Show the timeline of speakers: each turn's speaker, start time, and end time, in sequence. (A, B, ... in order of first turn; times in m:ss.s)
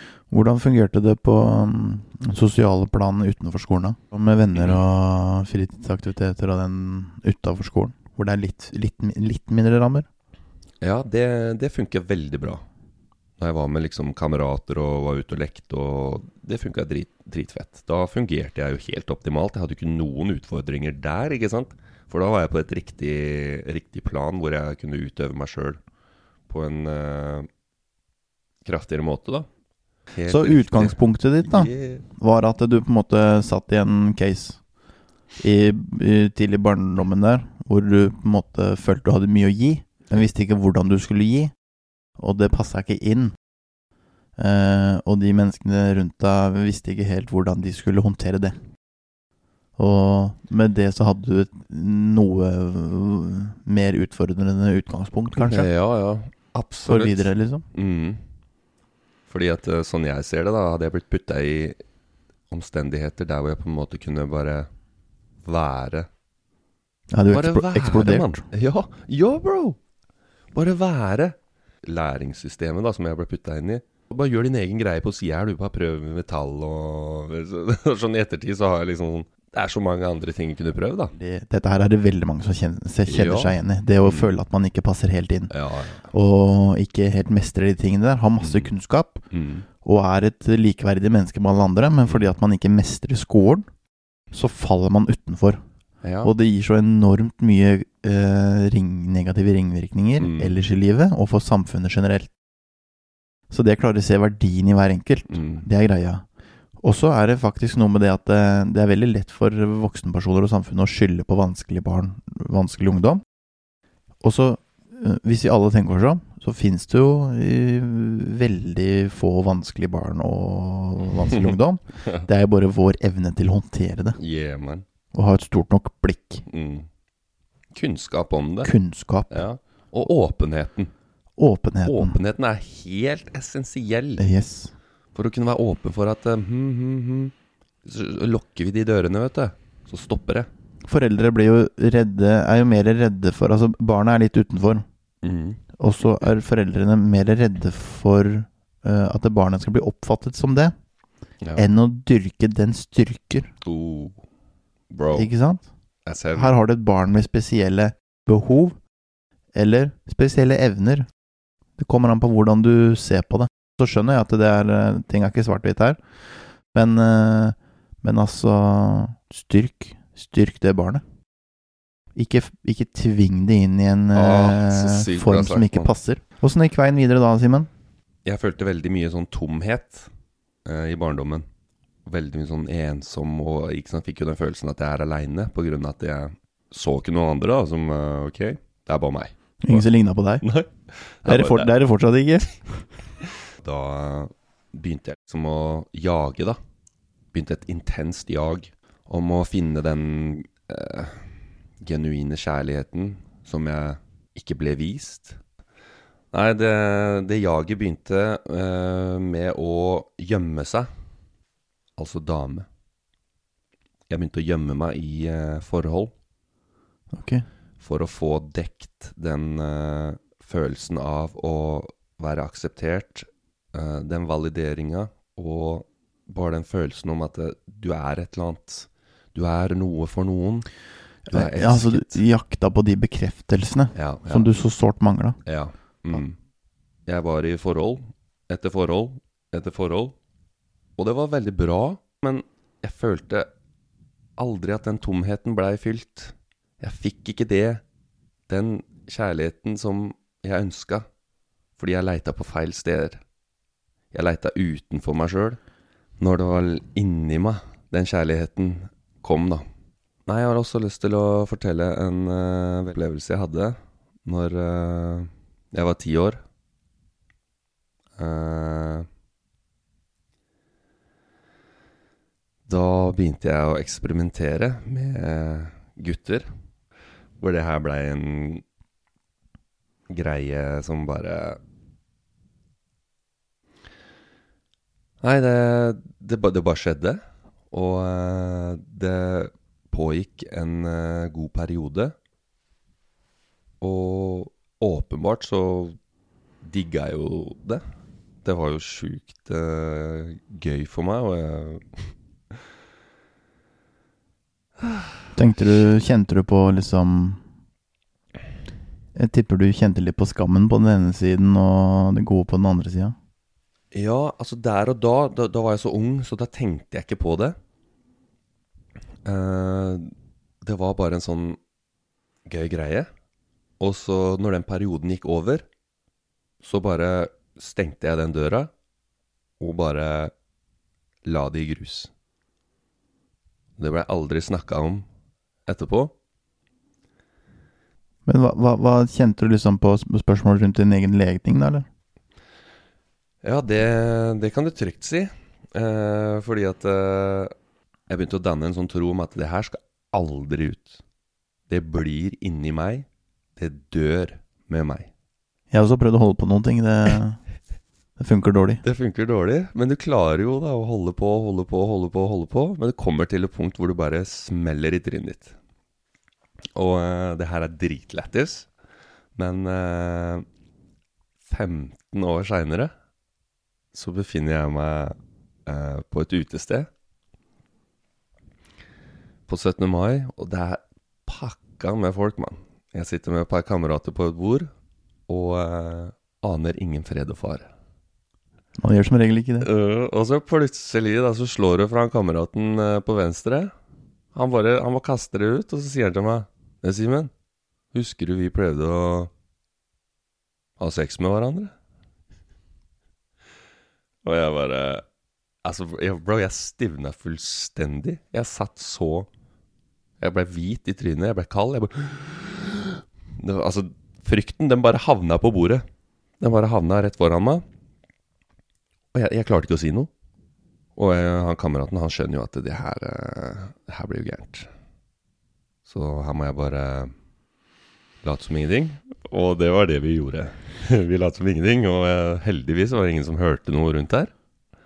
0:00.3-0:10.1 A
0:04.5-0:04.8 B
0:10.8-0:12.6 B
0:13.4-0:25.8 B
0:26.5-0:27.5 B
0:28.6-0:29.5 B
0:30.1-0:32.0 B
0:30.3-0:34.6 A
0:35.4-0:41.5 A
0:42.2-0:43.4 A
0:44.4-0:48.6 A
0:49.8-0:55.7 A
0:55.3-0:58.2 B
0:56.8-0:57.6 A
0:59.3-1:01.8 B
1:02.5-1:04.7 B
1:05.4-1:06.1 B
1:07.1-1:08.4 A
1:07.3-1:09.8 B
1:10.5-1:21.1 B
1:21.1-1:25.5 A
1:23.0-1:24.3 B
1:25.5-1:26.1 B
1:26.1-1:29.2 A
1:28.4-1:28.7 B
1:29.3-1:29.6 B
1:29.8-1:33.7 A
1:34.3-1:35.6 A
1:36.0-1:36.3 B
1:36.2-1:42.3 A
1:40.2-1:40.6 B
1:43.5-1:46.2 A
1:45.3-1:45.7 B
1:46.8-1:53.2 A
1:54.2-2:04.2 A
2:04.2-2:04.9 B
2:05.1-2:06.4 A
2:06.5-2:06.9 B
2:07.7-2:08.7 B
2:08.6-2:09.4 A
2:09.3-2:10.9 B
2:11.4-2:12.2 A
2:11.8-2:14.2 B
2:14.2-2:14.7 A
2:15.1-2:20.5 B
2:20.8-2:24.9 A
2:25.2-2:25.6 B
2:25.8-2:30.7 A
2:31.6-2:33.5 A
2:33.6-2:34.2 B
2:34.9-2:35.3 B
2:35.1-2:35.6 A
2:36.0-2:36.6 B
2:36.3-2:38.8 A
2:39.6-2:41.1 A
2:41.8-2:51.0 A
2:52.2-2:57.7 A
2:54.1-2:55.9 B
2:58.2-3:00.1 B
3:00.6-3:01.5 B
3:02.0-3:09.9 B
3:09.6-3:10.5 A
3:10.4-3:11.7 B
3:11.2-3:12.8 A
3:13.5-3:16.6 B
3:17.3-3:25.4 B
3:26.3-3:30.9 B
3:32.0-3:32.7 B
3:34.1-3:36.1 B
3:37.1-3:37.4 A
3:37.8-3:50.7 B
3:51.3-3:52.2 B
3:51.3-3:55.4 A
3:53.9-3:54.5 B
3:55.4-3:56.4 B
3:57.0-4:00.2 B
4:01.0-4:03.5 B
4:04.4-4:07.8 B
4:08.5-4:11.1 B
4:11.8-4:13.2 B
4:14.1-4:15.6 B
4:16.2-4:19.7 B
4:20.2-4:26.4 B
4:28.2-4:29.1 B
4:32.7-4:36.5 B
4:37.4-4:38.6 B
4:40.1-4:41.6 B
4:45.2-4:52.1 B
4:53.8-4:56.0 B
4:56.6-4:57.8 B
4:58.4-5:02.1 B
5:04.8-5:05.1 B
5:05.4-5:07.4 A
5:09.1-5:13.1 A
5:13.9-5:17.6 B
5:19.2-5:20.1 B
5:20.6-5:21.6 B
5:22.5-5:23.1 B
5:23.8-5:25.6 B
5:26.6-5:28.7 B
5:29.6-5:30.3 B
5:31.2-5:32.1 B
5:33.8-5:35.0 B
5:35.6-5:36.1 B
5:38.3-5:41.9 A
5:43.4-5:47.5 B
5:48.1-5:51.0 B
5:51.7-5:53.0 B
5:53.6-5:55.1 B
5:55.7-5:57.4 A
5:58.2-5:58.8 A
5:58.8-6:05.6 B
6:06.8-6:08.7 B
6:09.4-6:10.5 B
6:11.5-6:12.9 B
6:13.9-6:16.9 B
6:19.5-6:24.7 B
6:25.3-6:27.7 B
6:28.8-6:29.7 A
6:29.6-6:33.7 B
6:34.3-6:37.3 B
6:37.9-6:39.3 B
6:40.8-6:41.7 B
6:44.2-6:45.0 B
6:45.6-6:49.3 B
6:50.2-6:55.9 B
6:56.4-6:57.6 B
6:59.1-7:00.1 B
7:01.0-7:04.7 B
7:05.8-7:07.1 B
7:08.2-7:14.3 B